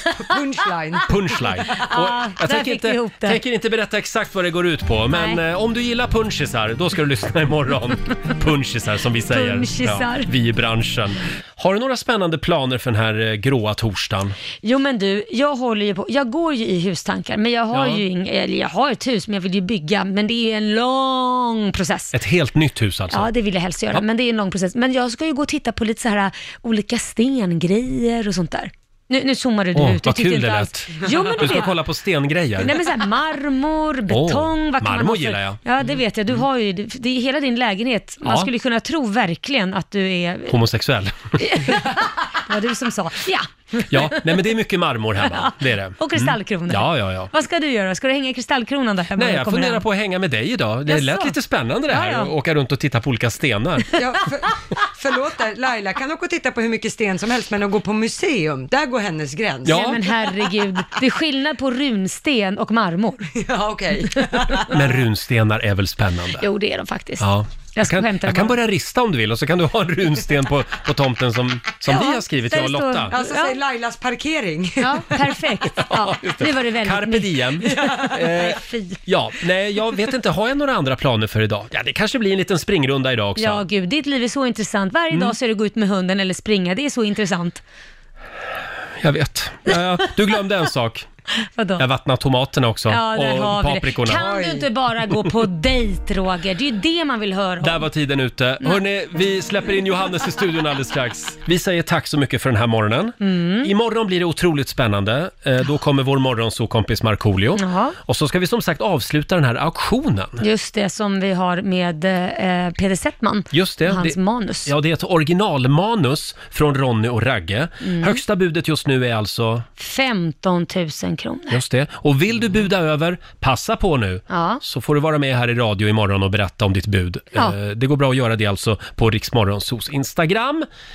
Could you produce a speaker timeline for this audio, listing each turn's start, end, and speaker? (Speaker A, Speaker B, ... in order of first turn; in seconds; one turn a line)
Speaker A: 0.2-1.4
Speaker B: 1.1-14.4
Speaker C: 1.9-3.4
Speaker C: 5.1-5.4
Speaker C: 9.3-10.3
Speaker C: 14.6-22.1
Speaker B: 17.7-18.0
Speaker B: 22.1-23.3
Speaker C: 23.1-31.7
Speaker B: 29.8-32.8
Speaker C: 32.6-40.6
Speaker B: 34.1-35.6
Speaker B: 38.2-38.5
Speaker B: 40.5-41.4
Speaker C: 41.4-44.4
Speaker B: 43.9-47.3
Speaker C: 45.3-49.8
Speaker B: 49.2-53.9
Speaker C: 50.9-51.4
Speaker C: 51.9-52.3
Speaker A: 54.0-60.1
Speaker B: 59.6-60.0
Speaker C: 59.7-63.3
Speaker A: 63.4-64.8
Speaker B: 64.7-66.5
Speaker C: 66.4-68.6
Speaker B: 67.2-73.1
Speaker C: 71.9-73.6
Speaker A: 73.1-75.4
Speaker C: 74.8-77.4
Speaker B: 75.8-83.7
Speaker A: 77.6-78.6
Speaker C: 78.6-78.9
Speaker C: 83.4-87.6
Speaker B: 89.0-91.1
Speaker C: 91.5-91.8
Speaker B: 91.8-94.6
Speaker C: 92.9-97.8
Speaker B: 97.6-110.4
Speaker C: 103.2-103.7
Speaker C: 107.6-108.0
Speaker C: 110.4-114.7
Speaker B: 113.5-119.7
Speaker C: 117.8-118.2
Speaker C: 119.8-121.6
Speaker B: 121.5-130.7
Speaker C: 124.3-124.6